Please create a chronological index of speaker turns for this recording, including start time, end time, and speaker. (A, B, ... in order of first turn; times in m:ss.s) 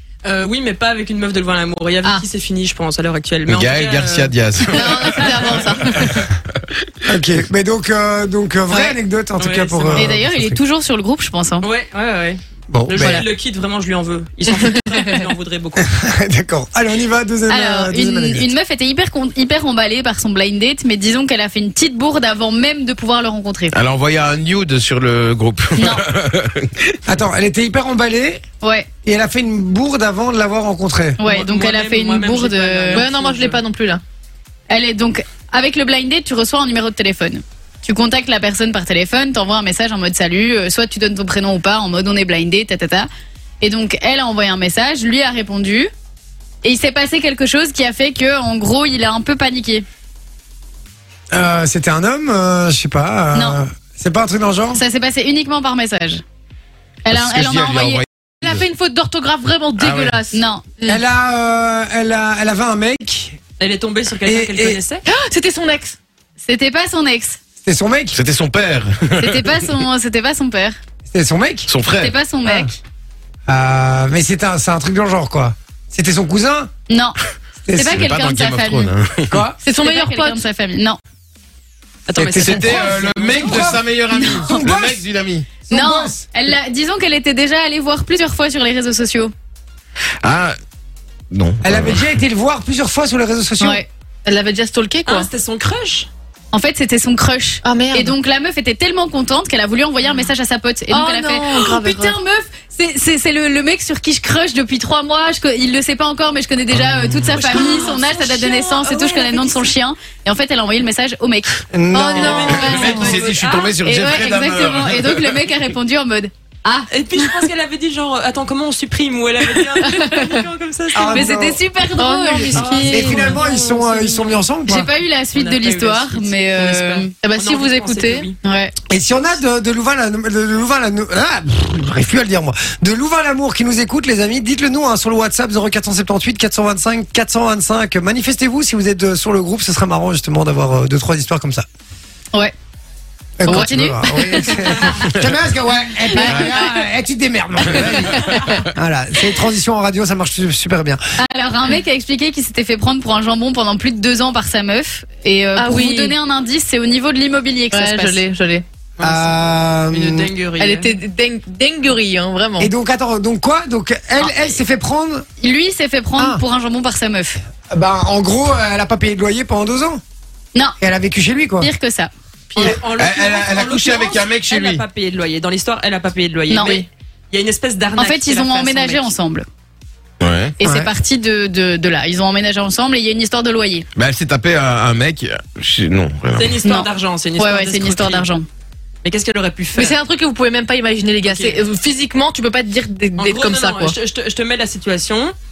0:00.2-0:06.0 A
0:03.4-0:07.2 B
0:04.7-0:06.2 C
0:07.0-0:10.6 D
0:09.4-0:10.1 A
0:09.9-0:11.7 E
0:11.6-0:15.9 A
0:12.7-0:13.2 D
0:13.0-0:13.2 C
0:15.8-0:18.5 D
0:17.5-0:23.7 E
0:23.7-0:27.0 B
0:25.8-0:26.0 E
0:27.0-0:28.4 D
0:28.6-0:28.9 E
0:29.0-0:31.2 D
0:31.2-0:33.1 E
0:31.2-0:33.6 A
0:32.9-0:34.0 C
0:34.7-0:43.1 E
0:43.6-0:45.9 E
0:46.6-0:49.8 E
0:51.3-0:54.8 D
0:53.3-0:53.6 E
0:54.7-0:56.2 E
0:57.0-0:58.0 E
0:57.1-0:58.6 B
0:58.4-1:01.0 C
0:59.8-1:00.2 B
1:00.3-1:00.6 E
1:00.8-1:03.4 D
1:03.6-1:05.0 A
1:04.2-1:04.8 D
1:05.0-1:06.0 C
1:06.4-1:07.4 E
1:07.6-1:08.2 D
1:08.1-1:09.8 B
1:09.2-1:10.8 E
1:11.1-1:11.7 D
1:11.7-1:12.1 B
1:11.9-1:12.7 E
1:12.4-1:12.7 D
1:13.5-1:16.7 D
1:16.9-1:17.2 E
1:17.6-1:18.1 D
1:17.7-1:18.9 E
1:17.9-1:19.4 B
1:19.3-1:19.6 D
1:19.6-1:20.4 C
1:19.7-1:21.0 E
1:22.1-1:23.7 A
1:22.2-1:23.8 D
1:22.3-1:25.6 B
1:23.5-1:24.6 E
1:24.3-1:25.0 D
1:25.6-1:26.2 D
1:25.7-1:29.3 E
1:30.2-1:30.5 B
1:31.3-1:32.1 B
1:31.6-1:33.8 D
1:34.2-1:35.3 C
1:35.0-1:36.1 A
1:36.5-1:51.6 E
1:37.6-1:38.2 C
1:40.9-1:42.2 C
1:47.3-1:49.7 A
1:47.4-1:49.3 C
1:51.7-1:53.2 D
1:51.9-1:53.1 C
1:52.1-1:53.8 A
1:52.4-1:55.5 B
1:53.8-1:57.4 E
1:56.9-2:01.3 A
1:59.5-2:00.3 E
2:00.9-2:01.6 D
2:01.0-2:02.6 E
2:01.9-2:03.4 C
2:02.4-2:04.5 A
2:02.7-2:04.9 D
2:04.6-2:07.1 E
2:05.3-2:08.3 A
2:07.2-2:08.3 C
2:08.4-2:08.7 E
2:08.9-2:21.6 D
2:23.4-2:31.0 D
2:23.4-2:25.1 E
2:26.1-2:26.8 E
2:26.2-2:26.5 B
2:27.7-2:28.6 B
2:31.2-2:38.2 E
2:35.5-2:36.2 C
2:37.7-2:38.6 C
2:39.0-2:39.4 A
2:39.0-2:40.3 D
2:39.9-2:40.9 A
2:40.6-2:42.7 C
2:42.6-2:45.2 D
2:45.4-2:47.4 E
2:46.2-2:46.4 D
2:47.7-2:50.0 D
2:50.8-2:51.7 D
2:51.6-2:52.1 E
2:52.5-2:52.8 C
2:52.5-2:59.1 A
2:52.8-2:54.8 B
2:56.5-2:56.8 E
2:58.0-2:59.4 E
3:00.2-3:00.5 B
3:00.6-3:03.8 E
3:00.6-3:00.9 D
3:04.0-3:06.6 B
3:06.3-3:08.3 A
3:06.6-3:08.4 E
3:09.0-3:10.0 A
3:09.7-3:14.0 C
3:11.2-3:11.6 A
3:13.2-3:15.3 A